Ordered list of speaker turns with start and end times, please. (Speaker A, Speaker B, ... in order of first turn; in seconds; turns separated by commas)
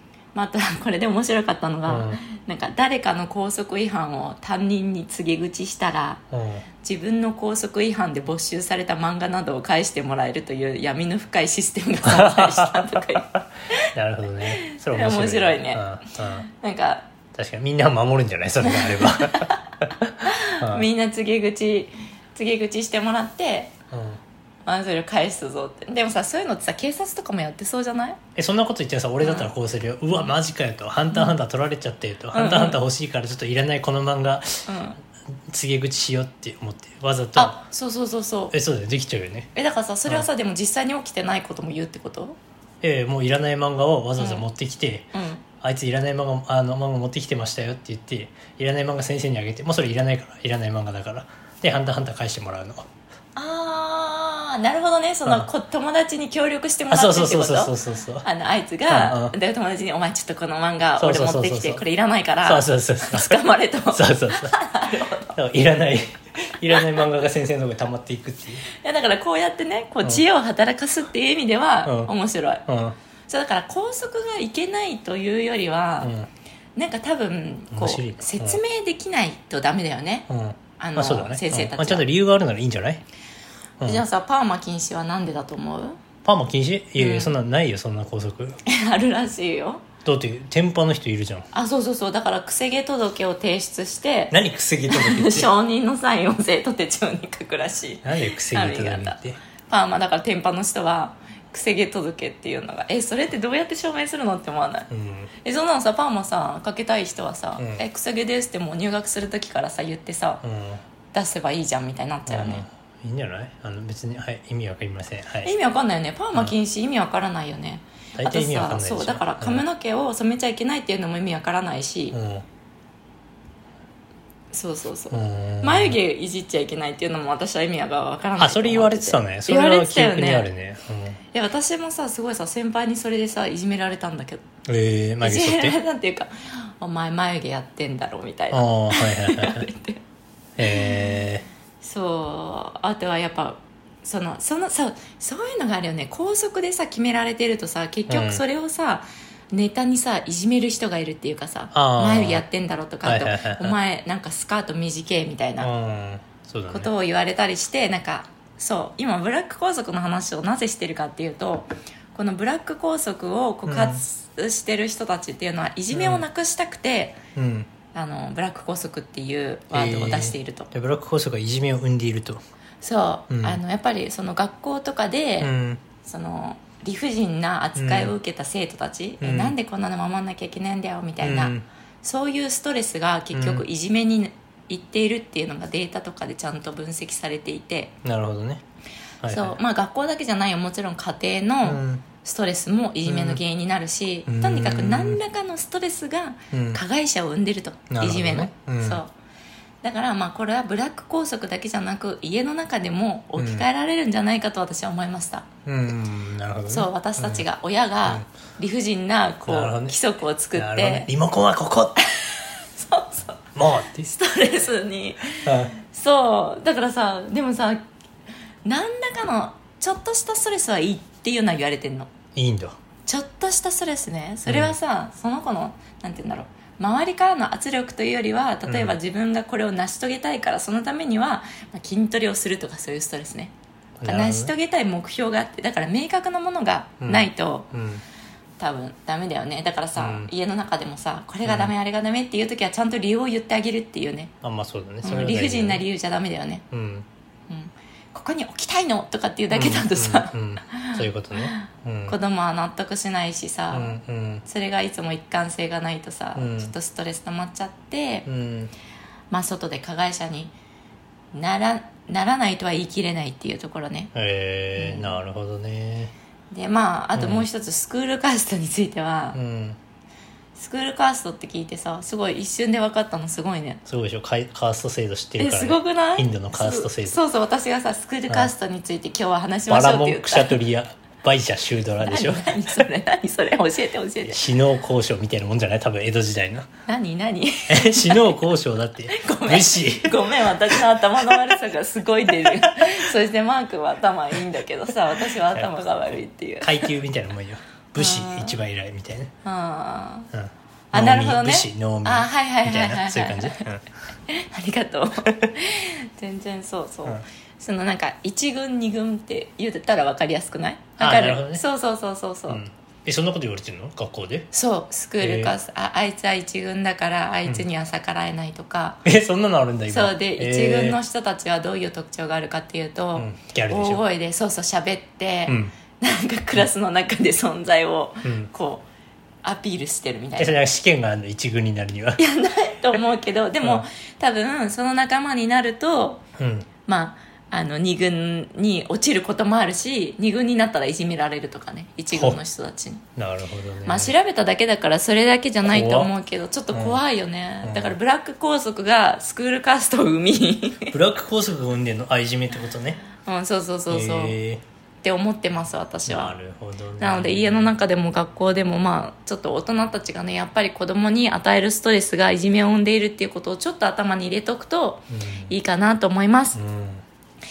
Speaker A: 0.3-6.2, Speaker B: 1.9-2.2, Speaker B: 6.3-6.6, Speaker A: 6.8-17.1, Speaker B: 12.0-16.5, Speaker B: 17.3-20.9, Speaker A: 18.6-19.7, Speaker A: 20.2-23.7, Speaker B: 23.9-24.2, Speaker A: 24.6-28.2, Speaker B: 28.4-34.7, Speaker A: 29.2-29.5, Speaker A: 32.3-32.8, Speaker A: 34.7-35.0, Speaker B: 35.5-37.6, Speaker A: 37.4-38.5, Speaker B: 38.5-39.5, Speaker A: 39.5-42.4, Speaker B: 42.8-52.9, Speaker A: 44.2-44.4, Speaker A: 45.1-45.4, Speaker A: 53.4-65.3, Speaker B: 56.9-58.3, Speaker B: 58.9-59.3, Speaker B: 61.0-61.8, Speaker B: 62.4-64.5, Speaker B: 65.3-68.7, Speaker A: 68.7-72.6, Speaker B: 71.8-72.1, Speaker B: 72.7-73.0, Speaker A: 73.3-76.1, Speaker B: 76.0-76.3, Speaker A: 76.8-80.3, Speaker B: 77.7-78.6, Speaker B: 80.3-83.0, Speaker A: 80.8-82.0, Speaker A: 83.8-86.0, Speaker B: 86.2-88.6, Speaker A: 87.0-87.3, Speaker A: 88.6-89.8, Speaker B: 90.0-91.5, Speaker A: 91.5-94.3, Speaker B: 94.3-95.5, Speaker A: 94.9-104.9, Speaker B: 98.0-99.4, Speaker B: 104.9-105.3, Speaker A: 105.4-110.4, Speaker B: 107.6-107.8, Speaker B: 110.4-110.8, Speaker A: 111.1-112.6, Speaker B: 112.3-115.5, Speaker A: 115.4-122.2, Speaker B: 118.2-119.6, Speaker B: 122.1-122.4, Speaker A: 124.5-130.5, Speaker B: 125.1-126.0, Speaker B: 128.4-131.2, Speaker A: 131.3-134.4, Speaker B: 134.6-135.8, Speaker A: 135.2-140.0, Speaker B: 138.5-139.7, Speaker B: 140.6-141.4, Speaker A: 140.7-140.9, Speaker A: 141.8-155.7, Speaker B: 148.1-148.4, Speaker B: 151.7-152.4, Speaker B: 153.0-153.8, Speaker B: 155.6-156.9, Speaker A: 156.7-167.2, Speaker B: 163.7-164.0, Speaker B: 165.9-166.2, Speaker B: 167.3-167.7, Speaker A: 167.9-170.7, Speaker B: 169.7-172.4, Speaker A: 172.8-187.9, Speaker B: 173.3-173.6, Speaker B: 175.4-175.8, Speaker B: 177.8-178.1, Speaker B: 179.2-179.5, Speaker B: 181.2-181.6, Speaker B: 183.3-183.6, Speaker B: 188.0-188.6, Speaker B: 189.2-189.6, Speaker A: 189.2-199.1, Speaker B: 191.6-192.0, Speaker B: 193.1-193.4, Speaker B: 194.3-195.2, Speaker B: 196.5-196.8, Speaker B: 197.9-199.0, Speaker A: 199.8-205.5, Speaker B: 203.4-203.7, Speaker B: 205.7-207.5, Speaker A: 206.7-211.1, Speaker B: 209.4-210.0, Speaker B: 210.5-212.0, Speaker A: 212.0-217.8, Speaker B: 213.6-214.1, Speaker B: 215.4-215.8, Speaker A: 218.6-222.1, Speaker B: 222.3-222.7, Speaker A: 223.1-237.7, Speaker B: 224.4-224.8, Speaker B: 228.7-229.0, Speaker B: 234.0-234.5, Speaker B: 237.0-238.0, Speaker A: 238.6-244.3, Speaker B: 239.9-240.3, Speaker B: 241.4-241.7, Speaker B: 244.4-245.8, Speaker A: 245.0-246.6, Speaker B: 246.7-247.1, Speaker A: 247.5-258.3, Speaker B: 249.5-252.2, Speaker B: 253.7-254.4, Speaker B: 256.4-256.7, Speaker B: 258.3-258.7, Speaker A: 259.3-260.5, Speaker A: 261.3-264.1, Speaker B: 264.1-266.1, Speaker A: 264.8-265.2, Speaker A: 266.5-269.4, Speaker B: 267.1-267.5, Speaker B: 269.3-269.8, Speaker A: 270.5-273.8, Speaker B: 273.9-277.2, Speaker A: 275.4-280.6, Speaker B: 279.7-282.8, Speaker A: 282.0-284.4, Speaker B: 284.2-286.7, Speaker A: 286.9-288.4, Speaker B: 287.7-291.6, Speaker A: 289.1-296.9, Speaker B: 292.4-292.9, Speaker B: 295.3-295.9, Speaker B: 296.6-299.3, Speaker A: 298.0-298.6, Speaker A: 299.4-300.3, Speaker B: 300.3-303.8, Speaker A: 300.9-303.6, Speaker A: 304.3-312.6, Speaker B: 311.0-311.6, Speaker B: 312.5-314.5, Speaker A: 314.5-319.0, Speaker B: 315.2-315.5, Speaker B: 319.0-321.0, Speaker A: 319.9-328.8, Speaker B: 323.1-324.0, Speaker B: 325.5-325.7, Speaker B: 328.2-328.5, Speaker A: 329.4-330.6, Speaker B: 330.4-332.2, Speaker A: 332.2-336.2, Speaker B: 336.4-336.7, Speaker A: 336.9-343.0, Speaker B: 342.1-342.4, Speaker B: 343.2-344.1, Speaker A: 343.9-350.9, Speaker B: 345.6-346.1, Speaker B: 346.7-347.0, Speaker B: 347.6-348.0, Speaker B: 350.9-353.0, Speaker A: 353.2-354.4, Speaker B: 353.9-354.6, Speaker A: 355.0-356.3, Speaker B: 356.1-357.7, Speaker A: 357.0-366.6, Speaker B: 365.1-365.5, Speaker B: 366.5-367.0